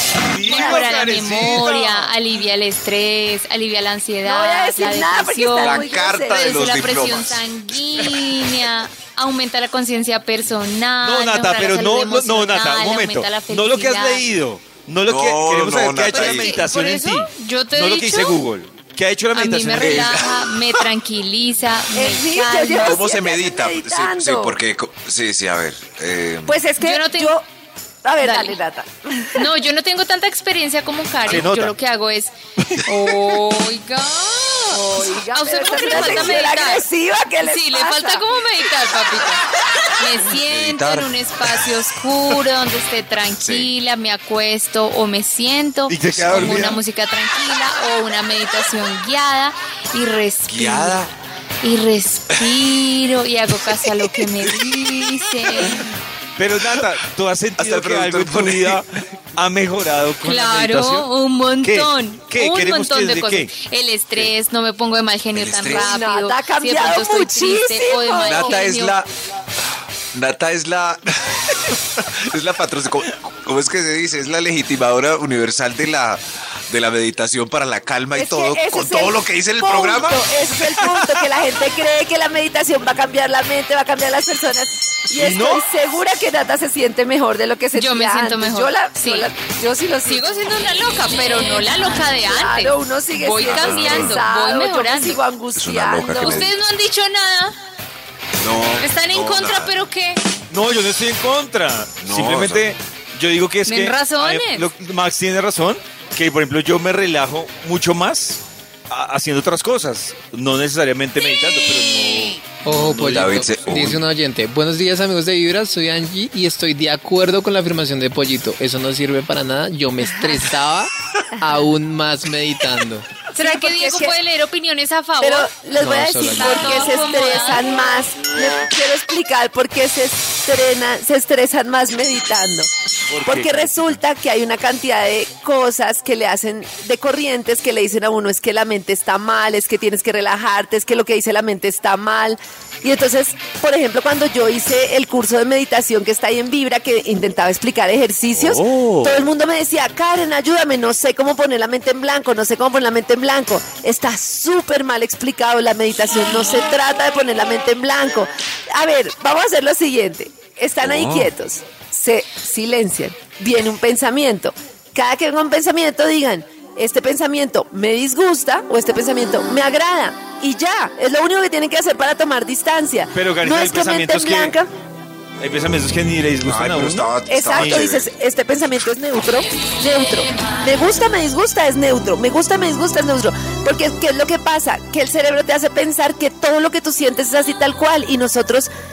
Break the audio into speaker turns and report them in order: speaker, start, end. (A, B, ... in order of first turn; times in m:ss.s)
0:00.3-0:02.1 A
0:00.5-0:14.2 B
0:04.2-0:06.6 C
0:05.5-0:07.5 D
0:11.0-0:20.2 A
0:15.1-0:16.6 D
0:16.0-0:18.4 B
0:19.4-0:23.0 B
0:19.8-0:20.4 D
0:22.0-0:24.6 C
0:22.8-0:26.6 D
0:26.5-0:27.4 C
0:26.8-0:27.4 B
0:28.0-0:29.5 C
0:28.2-0:28.6 B
0:29.3-0:36.9 B
0:31.3-0:31.7 A
0:32.6-0:32.9 A
0:34.7-0:38.4 C
0:35.9-0:36.4 D
0:37.4-0:39.4 B
0:40.0-0:51.1 B
0:40.3-0:41.1 D
0:43.4-0:43.7 D
0:45.9-0:46.8 A
0:46.2-0:46.8 D
0:50.5-0:51.1 D
0:51.6-0:55.9 B
0:53.8-0:55.7 D
0:56.4-1:01.1 A
0:57.6-0:58.8 D
1:00.2-1:09.0 B
1:01.6-1:03.5 A
1:05.3-1:06.0 D
1:05.7-1:08.6 C
1:08.2-1:09.1 D
1:10.1-1:21.3 D
1:18.2-1:30.2 C
1:25.2-1:25.7 A
1:27.7-1:29.3 B
1:30.0-1:35.2 B
1:31.8-1:36.5 C
1:33.4-1:34.3 D
1:35.6-1:36.5 D
1:36.2-1:37.6 B
1:38.4-1:39.8 D
1:38.8-1:40.2 B
1:40.5-1:53.1 A
1:42.0-1:42.7 D
1:43.7-1:44.7 B
1:52.6-2:03.2 E
1:52.7-1:54.0 D
2:03.4-2:07.7 B
2:03.4-2:04.1 C
2:05.2-2:12.7 C
2:05.8-2:06.7 E
2:13.1-2:14.0 A
2:13.3-2:54.7 C
2:28.4-2:29.2 D
2:40.8-2:41.3 D
2:53.1-2:54.6 A
2:55.4-2:57.9 A
2:56.4-2:58.1 D
2:57.3-3:08.7 C